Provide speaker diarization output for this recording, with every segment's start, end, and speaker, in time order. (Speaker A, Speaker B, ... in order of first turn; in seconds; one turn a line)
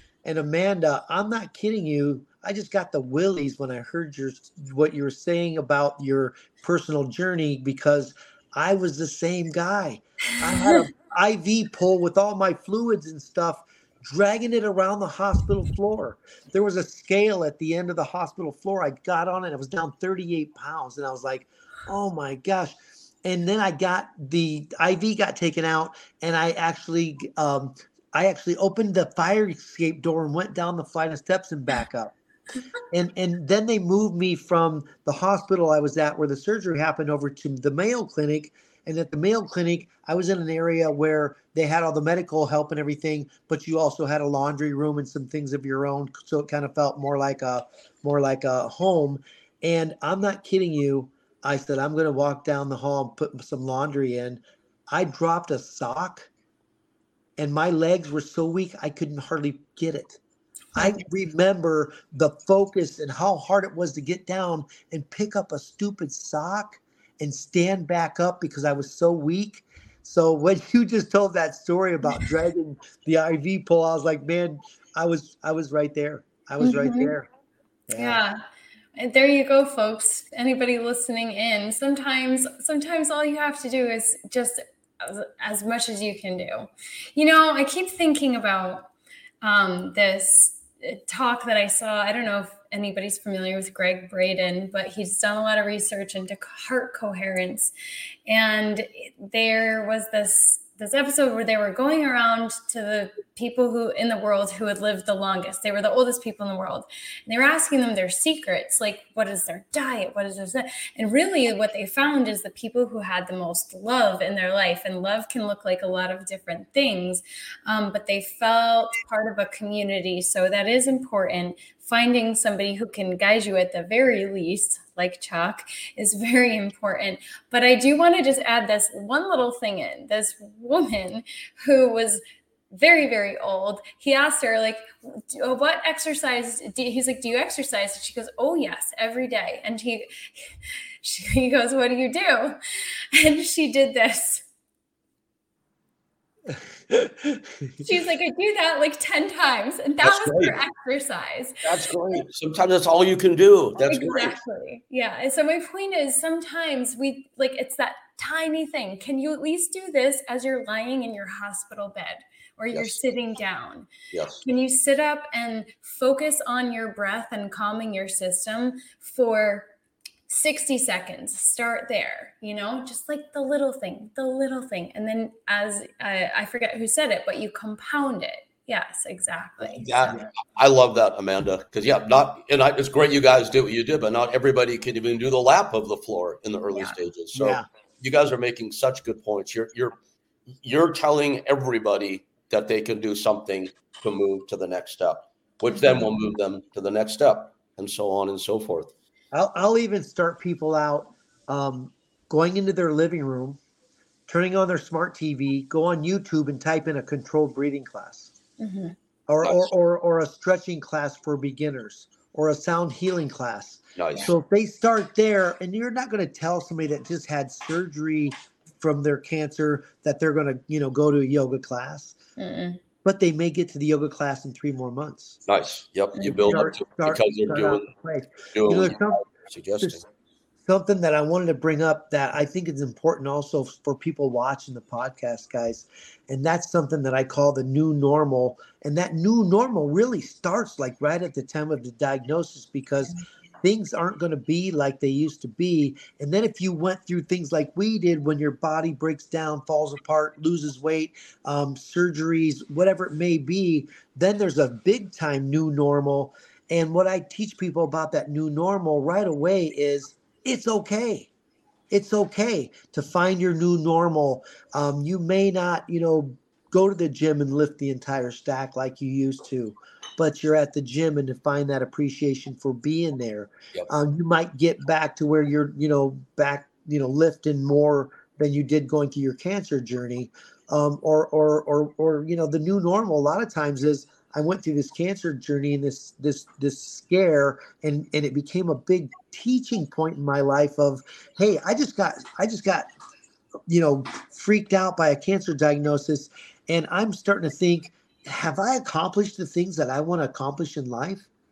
Speaker A: 0.2-32.1
Speaker A: 32.9-56.3
Speaker A: 57.4-60.2
Speaker B: 60.8-61.0
Speaker A: 60.8-77.3
Speaker B: 76.6-77.1
Speaker A: 77.9-78.2
Speaker B: 77.9-78.4
Speaker B: 79.0-88.9
Speaker B: 89.4-97.7
Speaker B: 98.3-142.6
Speaker B: 143.1-144.4
Speaker A: 146.9-147.3
Speaker B: 147.8-151.6
Speaker C: 150.0-150.6
Speaker C: 151.6-154.4
Speaker B: 153.8-163.9
Speaker C: 162.7-163.0
Speaker C: 164.1-164.4
Speaker B: 164.4-169.7
Speaker B: 170.3-180.2
Speaker C: 179.7-189.9
Speaker A: 187.3-187.6
Speaker C: 190.6-198.9
Speaker B: 195.7-196.1
Speaker A: 199.3-203.6
Speaker A: 204.3-208.3
Speaker B: 208.6-208.9
Speaker A: 209.3-222.2
Speaker C: 209.4-209.7
Speaker C: 214.0-214.3
Speaker B: 222.4-222.8
Speaker A: 223.0-225.4
Speaker C: 225.5-227.9
Speaker B: 226.1-226.7
Speaker A: 226.5-229.2
Speaker C: 228.5-230.0
Speaker A: 230.7-261.3
Speaker A: 261.9-292.9
Speaker A: 293.7-301.3